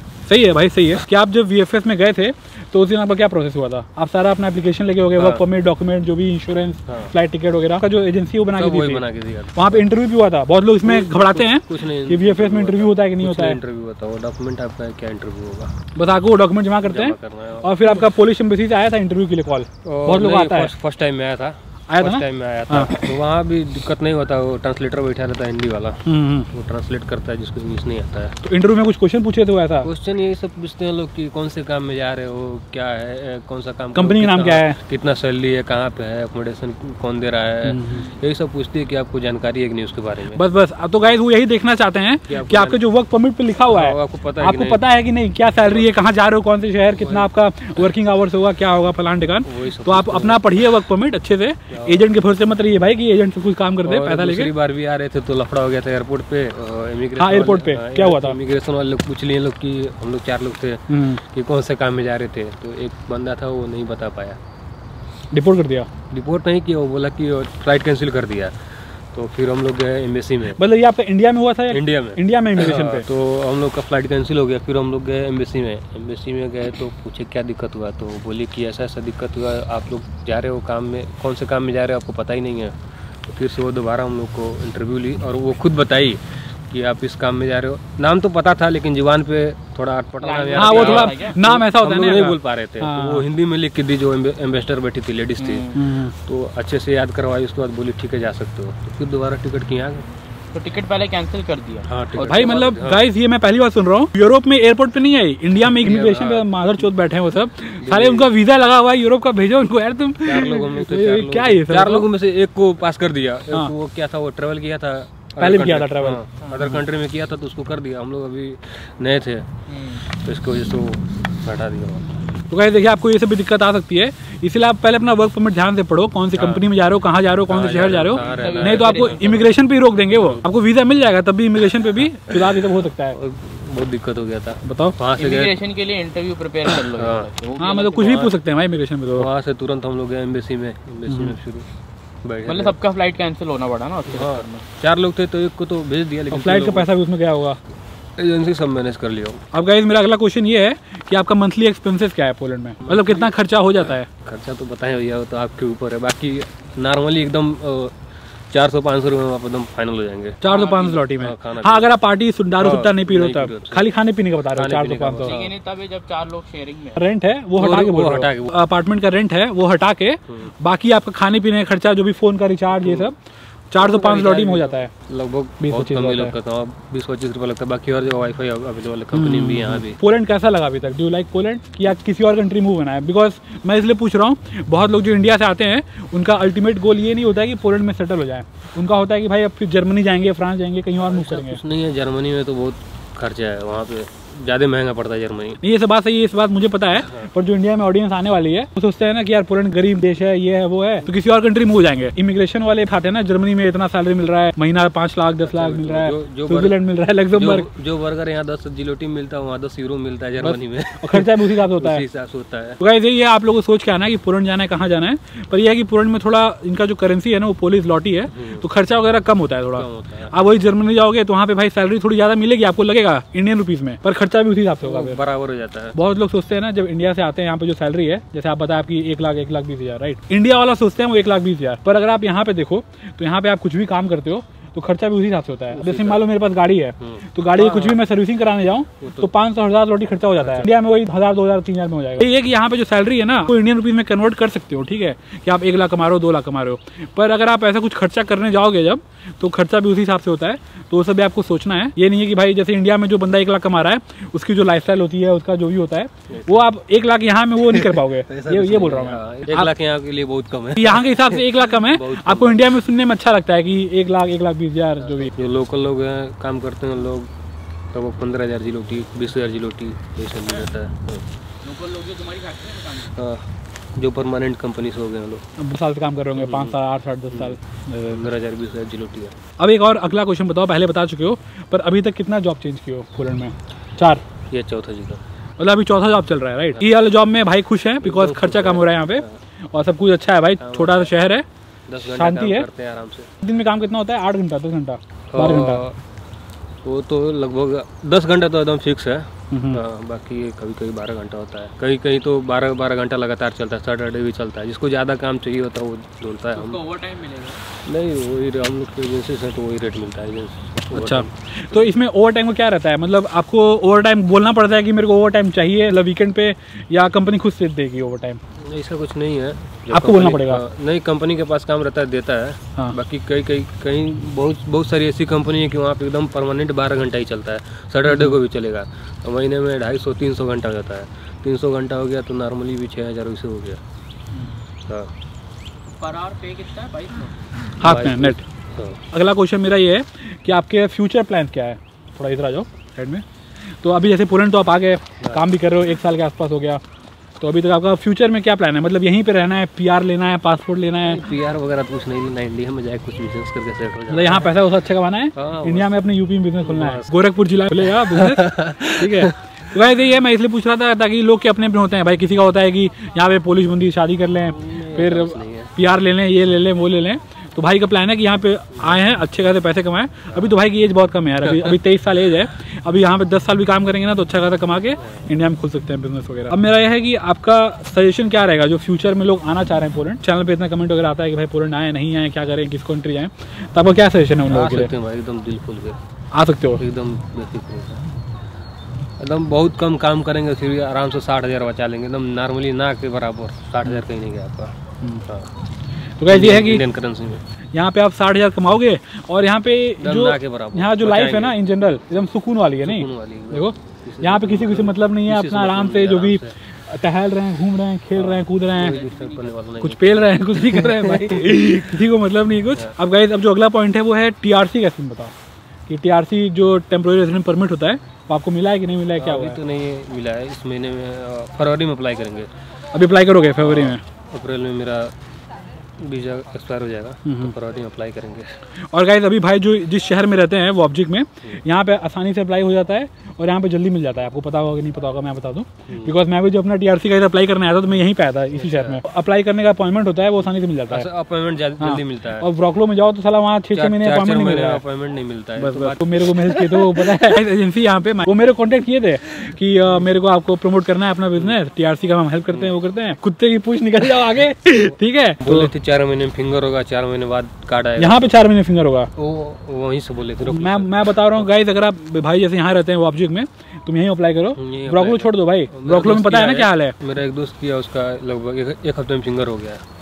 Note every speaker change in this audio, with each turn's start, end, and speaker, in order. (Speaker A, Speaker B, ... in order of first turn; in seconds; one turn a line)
Speaker A: 0.3-9.0
Speaker B: 5.2-5.4
Speaker B: 6.9-7.1
Speaker B: 8.5-9.9
Speaker A: 9.5-13.6
Speaker B: 10.8-15.7
Speaker A: 15.9-20.7
Speaker B: 16.8-18.0
Speaker B: 19.8-28.4
Speaker A: 21.9-23.1
Speaker A: 26.0-26.5
Speaker A: 28.4-29.9
Speaker B: 29.8-40.4
Speaker A: 33.9-34.8
Speaker A: 37.6-38.0
Speaker A: 40.3-54.5
Speaker B: 42.3-42.8
Speaker B: 43.7-44.8
Speaker B: 46.9-47.3
Speaker B: 49.4-50.7
Speaker B: 51.7-52.0
Speaker B: 53.8-64.4
Speaker A: 57.2-58.4
Speaker A: 60.9-61.2
Speaker A: 65.3-65.9
Speaker B: 66.1-68.5
Speaker B: 69.1-70.6
Speaker A: 70.6-73.1
Speaker B: 71.7-95.7
Speaker C: 90.2-91.4
Speaker A: 90.5-93.2
Speaker C: 95.4-95.8
Speaker A: 95.7-96.1
Speaker B: 96.2-100.0
Speaker C: 100.5-101.9
Speaker B: 101.8-103.0
Speaker A: 102.1-112.1
Speaker B: 105.8-106.5
Speaker B: 107.8-108.3
Speaker B: 110.2-119.5
Speaker A: 115.4-116.8
Speaker C: 119.7-120.0
Speaker B: 120.0-122.2
Speaker A: 122.5-133.2
Speaker B: 126.3-126.7
Speaker B: 127.5-129.5
Speaker C: 128.2-129.4
Speaker B: 130.1-130.4
Speaker B: 133.1-135.5
Speaker A: 134.6-134.9
Speaker C: 135.2-138.2
Speaker B: 136.9-137.3
Speaker A: 137.6-139.3
Speaker B: 137.9-138.3
Speaker B: 139.1-141.7
Speaker A: 141.1-141.3
Speaker B: 142.2-142.8
Speaker C: 142.4-144.6
Speaker B: 144.1-146.9
Speaker A: 146.3-147.6
Speaker B: 148.2-149.4
Speaker A: 149.5-154.1
Speaker B: 152.8-157.9
Speaker B: 158.5-161.9
Speaker A: 160.4-165.3
Speaker C: 160.4-161.0
Speaker B: 162.6-163.9
Speaker B: 164.5-165.5
Speaker C: 165.2-167.0
Speaker A: 166.9-173.2
Speaker B: 167.6-168.6
Speaker B: 172.8-173.1
Speaker A: 173.7-174.9
Speaker B: 173.8-180.0
Speaker A: 175.6-176.3
Speaker A: 179.1-191.6
Speaker B: 191.0-195.6
Speaker A: 195.6-207.7
Speaker B: 197.0-197.3
Speaker B: 205.4-206.8
Speaker B: 207.3-212.8
Speaker A: 210.4-212.0
Speaker A: 212.8-225.2
Speaker B: 218.3-218.7
Speaker B: 219.7-220.3
Speaker B: 224.8-226.0
Speaker A: 225.9-259.7
Speaker B: 235.7-236.2
Speaker B: 237.0-238.0
Speaker B: 239.0-239.3
Speaker B: 240.4-240.7
Speaker B: 256.3-256.6
Speaker B: 257.6-262.7
Speaker A: 260.8-265.3
Speaker B: 265.0-267.3
Speaker B: 267.9-271.2
Speaker C: 271.6-273.2
Speaker B: 273.1-273.4
Speaker B: 274.0-275.4
Speaker A: 275.6-278.3
Speaker B: 276.3-276.7
Speaker B: 277.3-279.3
Speaker A: 279.6-284.2
Speaker B: 284.5-285.2
Speaker A: 285.6-291.4
Speaker B: 288.0-289.4
Speaker B: 290.6-291.1
Speaker B: 291.9-293.3
Speaker A: 292.0-292.7
Speaker A: 293.4-295.8
Speaker B: 295.3-295.9
Speaker B: 296.8-306.8
Speaker A: 299.5-299.8
Speaker C: 306.6-307.6
Speaker B: 307.8-311.8
Speaker A: 310.9-318.4
Speaker B: 318.5-333.8
Speaker A: 319.9-320.6
Speaker C: 336.0-337.3
Speaker A: 337.8-338.4
Speaker B: 337.8-339.0
Speaker A: 339.1-343.2
Speaker A: 343.8-346.8
Speaker B: 345.2-345.5
Speaker A: 347.4-351.2
Speaker B: 351.0-354.6
Speaker A: 354.1-384.9
Speaker B: 355.3-355.9
Speaker B: 356.6-357.1
Speaker B: 357.8-359.4
Speaker B: 364.5-365.7
Speaker B: 371.4-371.7
Speaker B: 375.0-375.3
Speaker B: 384.5-386.0
Speaker A: 386.3-386.8
Speaker B: 386.8-388.0
Speaker B: 389.2-395.5
Speaker A: 396.2-396.8
Speaker B: 396.3-397.4
Speaker A: 397.7-409.0
Speaker B: 400.0-401.6
Speaker B: 402.8-406.5
Speaker B: 408.1-411.6
Speaker C: 408.9-409.2
Speaker A: 409.8-415.3
Speaker A: 415.9-419.6
Speaker B: 419.2-422.5
Speaker A: 422.9-424.0
Speaker B: 423.6-425.1
Speaker B: 426.0-428.6
Speaker A: 427.2-427.5
Speaker A: 428.9-441.1
Speaker B: 435.9-436.1
Speaker B: 438.5-439.0
Speaker B: 440.9-442.5
Speaker A: 441.8-444.8
Speaker B: 443.7-447.0
Speaker A: 445.6-455.7
Speaker B: 455.4-458.4
Speaker A: 458.0-459.1
Speaker B: 459.1-461.4
Speaker A: 460.4-466.9
Speaker B: 464.6-469.8